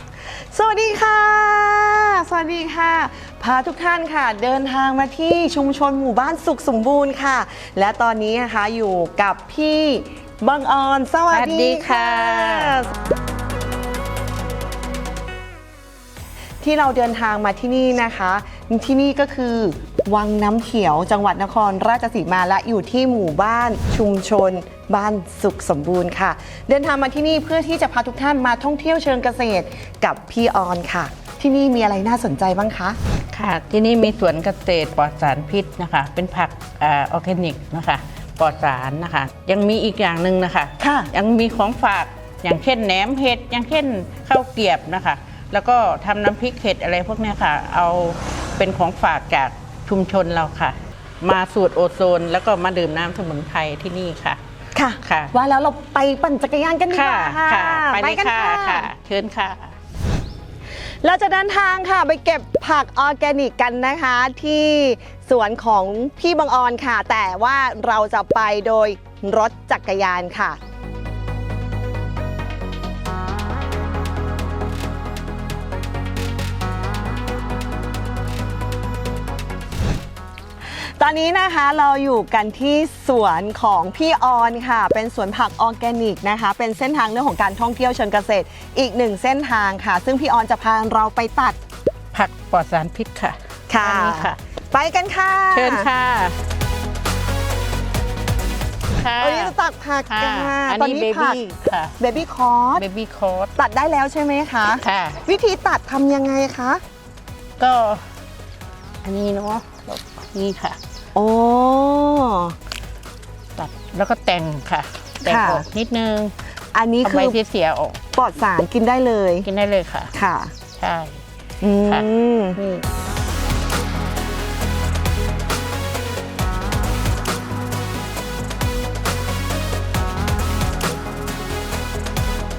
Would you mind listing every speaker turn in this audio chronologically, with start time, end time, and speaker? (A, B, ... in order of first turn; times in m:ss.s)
0:00.5-0:12.9 A
0:11.3-0:12.8 B
0:16.6-0:33.0 A
0:33.3-0:54.4 B
0:40.8-0:41.1 A
0:54.8-0:58.9 A
0:55.0-0:55.3 B
0:56.9-0:59.8 B
1:01.0-1:10.6 A
1:20.8-1:31.6 A
1:32.1-1:34.4 B
1:33.7-1:35.9 A
1:35.5-1:36.4 B
1:39.0-1:39.5 B
1:39.2-1:42.8 A
1:40.1-1:41.9 B
1:42.8-1:43.5 B
1:43.6-1:46.8 A
1:44.8-1:45.2 B
1:47.6-1:48.0 B
1:49.0-1:50.8 B
1:51.2-1:52.6 A
1:53.6-1:56.3 B
1:55.2-1:55.6 A
1:56.7-1:57.4 A
1:57.0-1:58.0 B
1:58.1-1:59.5 A
1:59.4-2:00.1 B
2:00.1-2:00.5 A
2:00.8-2:01.2 B
2:01.6-2:02.8 A